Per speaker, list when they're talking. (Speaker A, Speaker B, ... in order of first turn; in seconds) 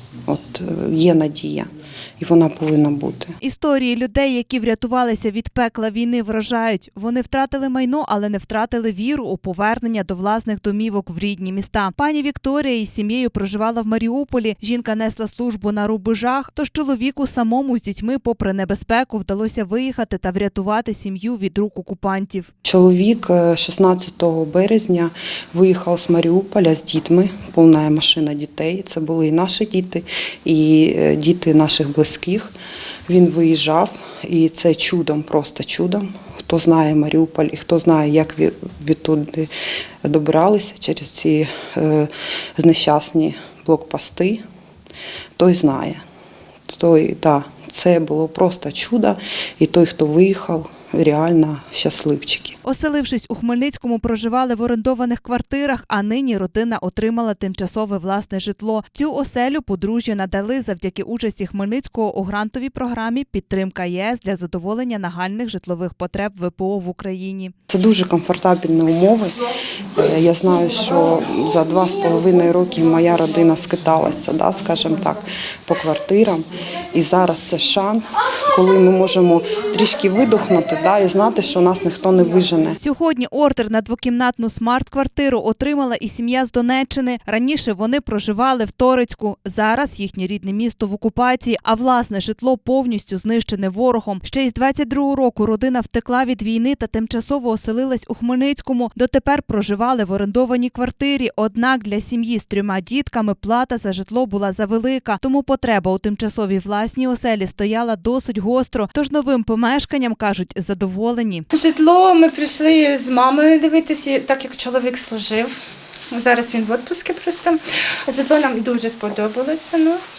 Speaker A: 0.3-1.7, 2.2-3.3, 22.6-32.5, 33.1-39.5, 40.0-44.4, 45.4-46.0, 46.7-52.6, 67.7-69.4, 70.0-82.8
Speaker B: 3.4-22.5, 52.7-67.5, 82.8-111.5
Speaker C: 111.5-120.0